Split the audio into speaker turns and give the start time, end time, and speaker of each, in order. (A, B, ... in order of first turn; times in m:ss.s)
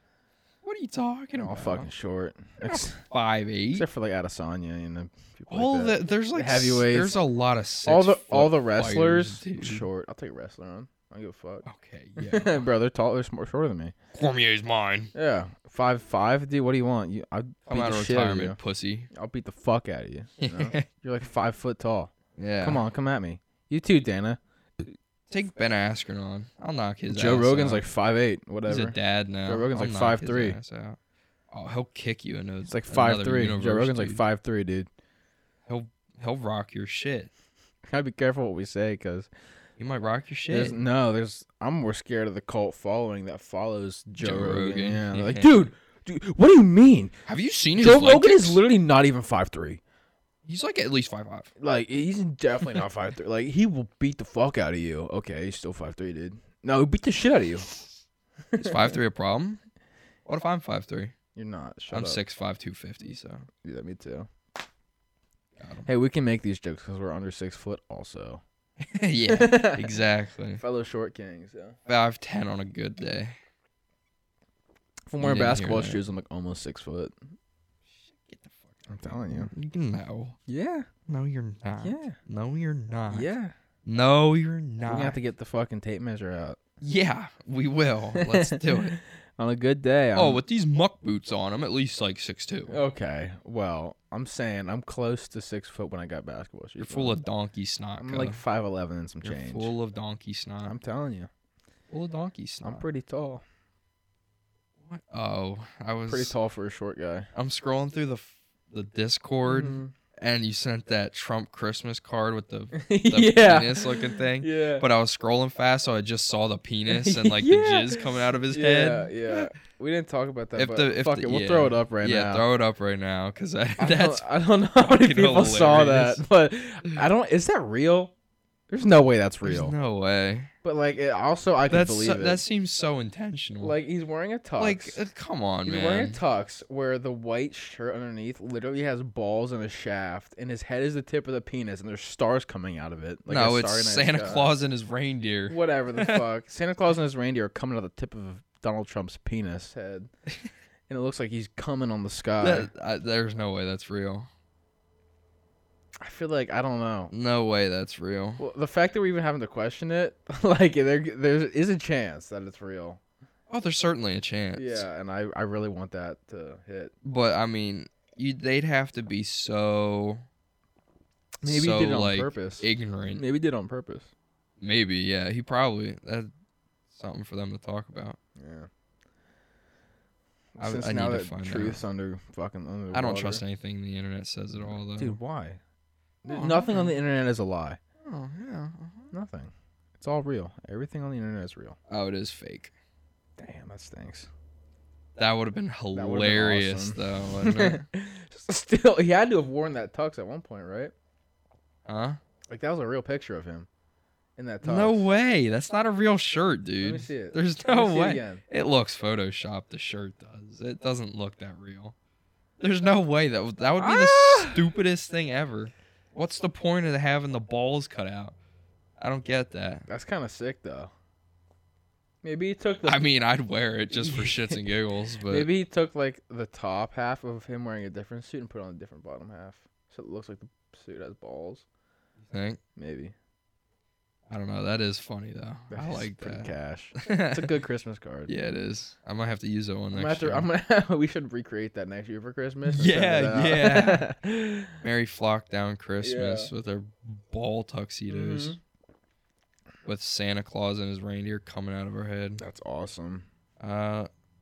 0:00.6-0:01.9 A
0:01.4-0:03.0 B
0:02.6-0:03.8 A
0:03.7-0:07.2 B
0:05.5-0:09.8 A
0:07.8-0:11.6 B
0:11.6-0:12.6 A
0:12.2-0:13.9 B
0:14.1-0:15.1 A
0:15.1-0:18.6 B
0:17.7-0:19.1 A
0:19.1-0:24.4 B
0:20.4-0:20.8 A
0:22.4-0:22.8 A
0:25.3-0:27.8 A
0:27.1-0:30.6 B
0:28.6-0:31.0 A
0:31.5-0:34.2 A
0:32.6-0:34.9 B
0:35.7-0:37.3 A
0:37.9-0:39.3 B
0:39.8-0:40.8 A
0:40.5-0:47.1 B
0:44.2-0:45.6 A
0:47.3-0:48.6 A
0:47.8-0:49.8 B
0:50.4-0:51.5 A
0:51.6-0:57.7 B
0:58.5-0:59.0 B
0:58.6-0:59.6 A
1:00.2-1:01.1 A
1:01.3-1:02.2 B
1:01.9-1:03.5 A
1:03.6-1:04.3 B
1:05.6-1:05.9 A
1:05.8-1:08.4 B
1:08.8-1:10.6 A
1:09.3-1:09.9 B
1:10.6-1:11.8 B
1:11.9-1:13.4 A
1:15.0-1:17.1 B
1:15.2-1:16.0 A
1:18.0-1:20.4 A
1:18.9-1:19.5 B
1:20.5-1:20.9 B
1:21.1-1:23.3 A
1:21.8-1:22.2 B
1:23.1-1:23.5 B
1:23.8-1:25.2 A
1:24.8-1:26.6 B
1:26.8-1:29.0 A
1:28.1-1:30.4 B
1:30.1-1:32.8 A
1:32.7-1:37.2 B
1:36.8-1:38.4 A
1:38.0-1:39.7 B
1:39.2-1:40.7 A
1:40.6-1:41.3 B
1:41.9-1:42.8 A
1:42.6-1:43.4 B
1:44.9-1:46.3 A
1:46.0-1:47.3 B
1:47.3-1:59.5 A
1:49.4-1:49.9 B
1:52.7-1:54.8 B
1:56.9-2:02.4 B
2:00.6-2:06.2 A
2:03.8-2:08.1 B
2:08.7-2:09.7 B
2:09.4-2:10.5 A
2:10.6-2:12.4 B
2:11.7-2:13.8 A
2:13.6-2:15.0 B
2:14.6-2:16.2 A
2:15.6-2:24.5 B
2:23.3-2:26.2 A
2:25.5-2:30.1 B
2:30.9-2:32.7 B
2:32.4-2:34.3 A
2:36.0-2:37.1 B
2:37.1-2:38.4 A
2:38.4-2:43.0 B
2:43.5-2:44.9 A
2:44.5-2:46.9 B
2:47.0-2:50.2 A
2:51.4-2:53.2 A
2:51.4-2:54.1 B
2:54.6-2:56.3 A
2:56.9-2:58.2 A
2:58.4-2:58.7 B
3:00.6-3:03.4 B
3:00.6-3:01.8 A
3:02.9-3:05.2 A
3:04.6-3:05.6 B
3:06.2-3:07.8 B
3:06.3-3:06.9 A
3:08.0-3:09.1 A
3:09.1-3:11.8 B
3:11.9-3:12.7 A
3:13.4-3:14.3 B
3:15.2-3:17.8 A
3:15.9-3:20.9 B
3:21.8-3:22.2 A
3:22.5-3:23.7 B
3:24.4-3:25.1 B
3:24.6-3:31.9 A
3:26.8-3:28.4 B
3:32.6-3:38.3 A
3:33.8-3:34.6 B
3:39.0-3:39.8 A
3:39.9-3:40.9 B
3:42.2-3:43.0 B
3:42.8-3:45.5 A
3:43.9-3:44.7 B
3:45.3-3:51.6 B
3:52.3-3:52.6 A
3:52.8-3:53.1 B
3:54.3-3:57.5 A
3:55.7-3:58.3 B
3:58.3-4:00.5 A
3:59.9-4:04.8 B
4:02.7-4:04.1 A
4:04.8-4:08.6 A
4:06.0-4:06.5 B
4:08.1-4:08.6 B
4:09.8-4:12.4 A
4:12.4-4:13.3 B
4:13.6-4:14.1 A